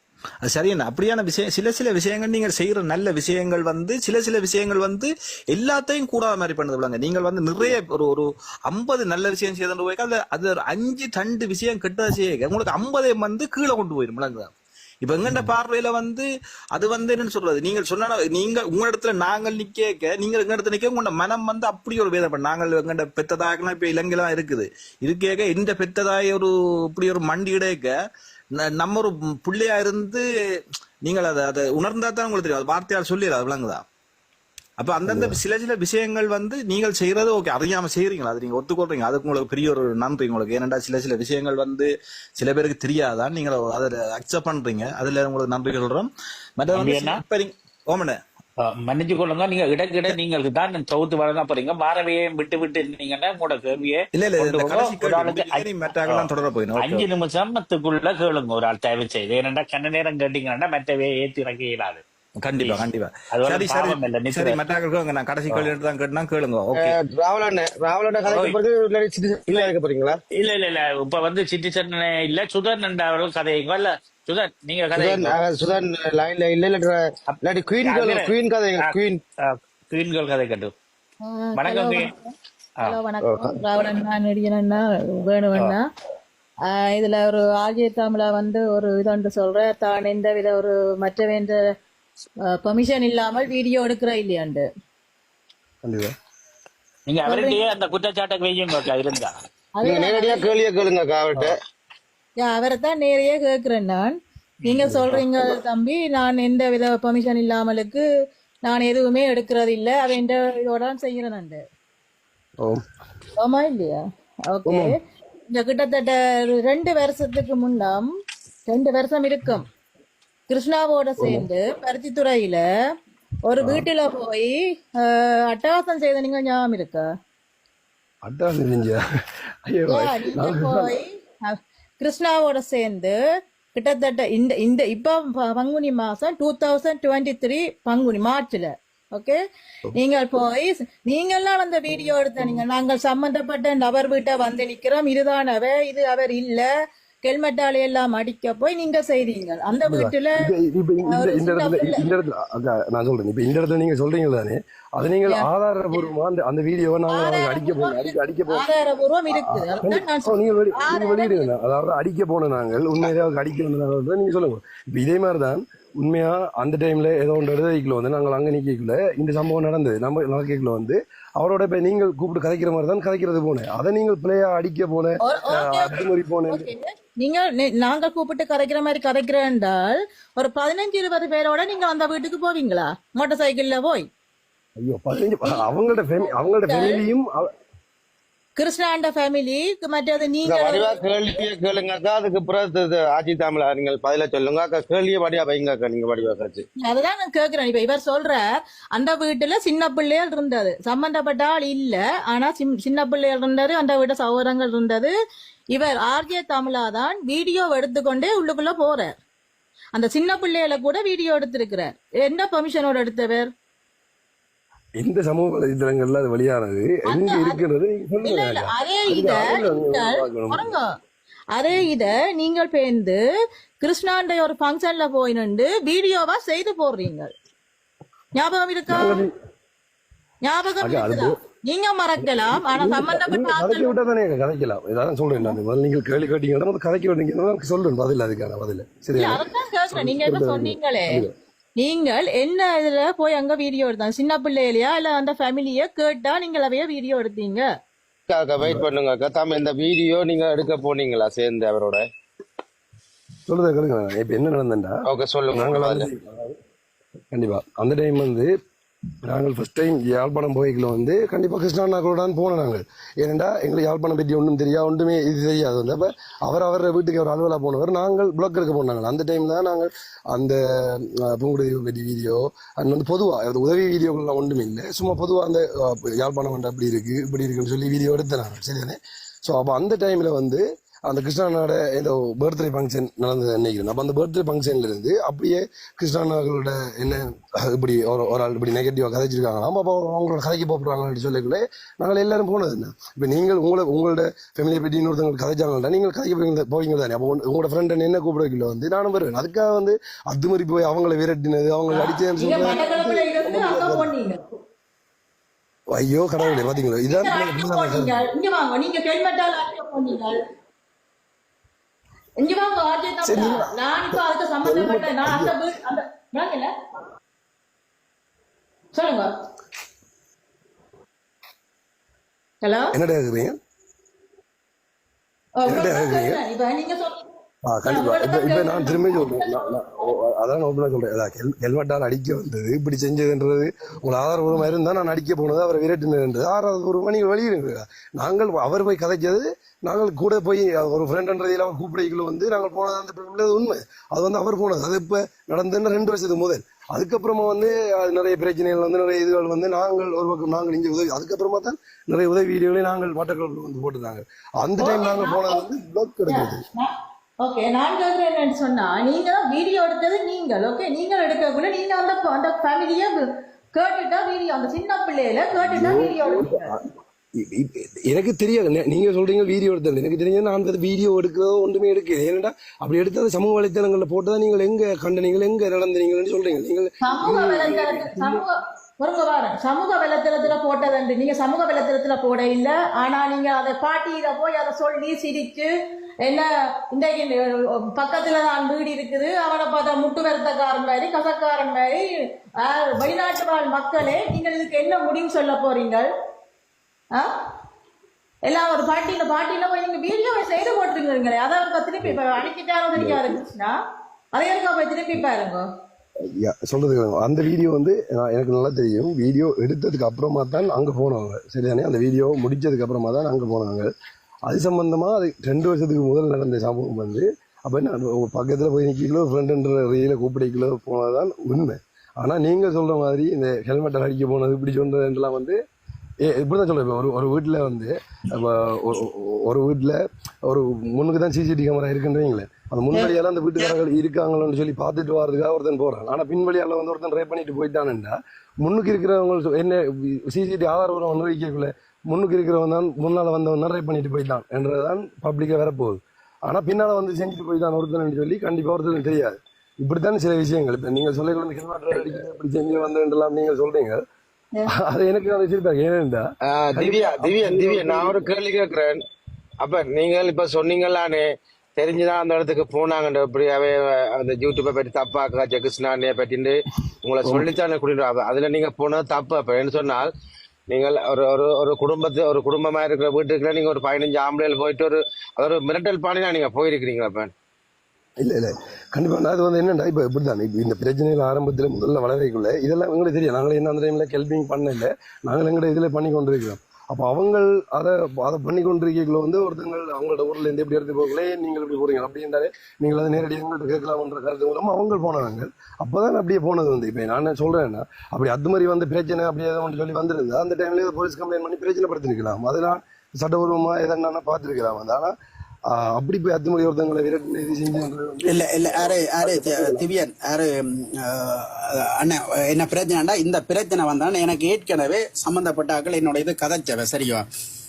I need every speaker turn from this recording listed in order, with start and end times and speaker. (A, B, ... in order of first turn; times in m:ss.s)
0:00.4-0:14.5 A
0:15.0-0:27.9 A
0:28.6-0:30.2 A
0:31.0-0:33.8 A
0:34.8-0:48.2 A
0:35.0-0:35.4 B
0:46.7-0:47.2 C
0:48.6-1:02.0 C
0:54.1-0:57.0 A
1:02.4-1:07.0 A
1:03.3-1:04.6 C
1:06.8-1:10.2 D
1:10.4-1:15.4 C
1:14.9-1:19.2 D
1:17.3-1:20.7 C
1:21.2-1:22.3 E
1:21.6-1:22.1 C
1:22.8-1:25.8 E
1:23.2-1:23.6 D
1:26.7-1:31.6 E
1:32.5-1:34.7 E
1:35.8-1:36.1 B
1:37.1-1:39.4 C
1:37.2-1:37.6 E
1:39.8-1:40.5 E
1:39.8-1:41.6 D
1:42.4-1:48.0 E
1:44.8-1:45.2 B
1:48.6-1:51.6 E
1:53.4-1:54.9 E
1:54.6-1:54.9 B
1:55.5-1:58.1 E
1:58.7-1:59.6 E
2:00.5-2:02.6 E
2:01.2-2:01.4 B
2:03.4-2:07.0 E
2:03.6-2:03.9 B
2:08.2-2:09.0 B
2:09.6-2:10.9 B
2:09.9-2:13.2 E
2:13.7-2:19.4 E
2:20.0-2:26.7 E
2:27.2-2:30.4 E
2:29.9-2:38.7 B
2:31.1-2:32.1 E
2:37.1-2:41.5 E
2:39.3-2:56.7 B
2:55.2-3:04.1 E
3:04.8-3:07.5 B
3:06.2-3:07.0 E
3:08.6-3:11.0 E
3:10.4-3:16.6 D
3:16.8-3:18.4 E
3:18.9-3:25.1 E
3:25.7-3:29.1 E
3:30.0-3:33.5 E
3:35.0-3:40.7 B
3:37.1-3:37.6 E
3:38.2-3:40.9 E
3:41.5-3:43.2 E
3:43.8-3:47.3 E
3:48.4-3:49.2 E
3:48.9-3:49.3 B
3:50.4-3:54.0 E
3:50.8-3:51.4 B
3:52.2-4:01.3 B
3:59.2-4:01.2 E
4:01.8-4:07.6 E
4:08.3-4:12.0 D
4:08.6-4:08.8 B
4:13.5-4:15.0 B
4:15.1-4:16.1 D
4:15.5-4:16.6 B
4:17.3-4:18.5 B
4:19.2-5:04.1 B
5:01.9-5:04.5 E
5:05.9-5:08.2 B
5:07.1-5:10.4 E
5:12.4-5:16.7 E
5:13.2-5:15.5 B
5:18.9-5:19.3 E
5:22.6-5:22.9 E
5:22.9-5:23.6 B
5:25.6-5:27.2 E
5:25.6-5:26.4 B
5:27.6-5:56.6 B
5:27.9-5:29.7 E
5:54.8-5:55.6 E
5:56.3-6:03.2 E
6:03.7-6:06.7 E
6:05.6-6:06.8 B
6:07.4-6:18.4 B
6:17.0-6:25.7 E
6:26.2-6:32.0 E
6:32.6-6:36.1 E
6:38.5-6:43.8 E
6:43.0-6:43.4 B
6:44.3-6:45.6 E
6:46.2-6:53.9 B
6:54.5-7:05.6 B
7:06.2-7:34.0 B
7:34.7-7:38.3 B
7:36.5-7:39.0 D
7:39.6-7:50.1 D
7:47.2-7:47.6 B
7:50.7-7:57.3 D
7:58.2-8:25.1 B
8:25.7-8:29.8 B
8:28.2-8:37.2 F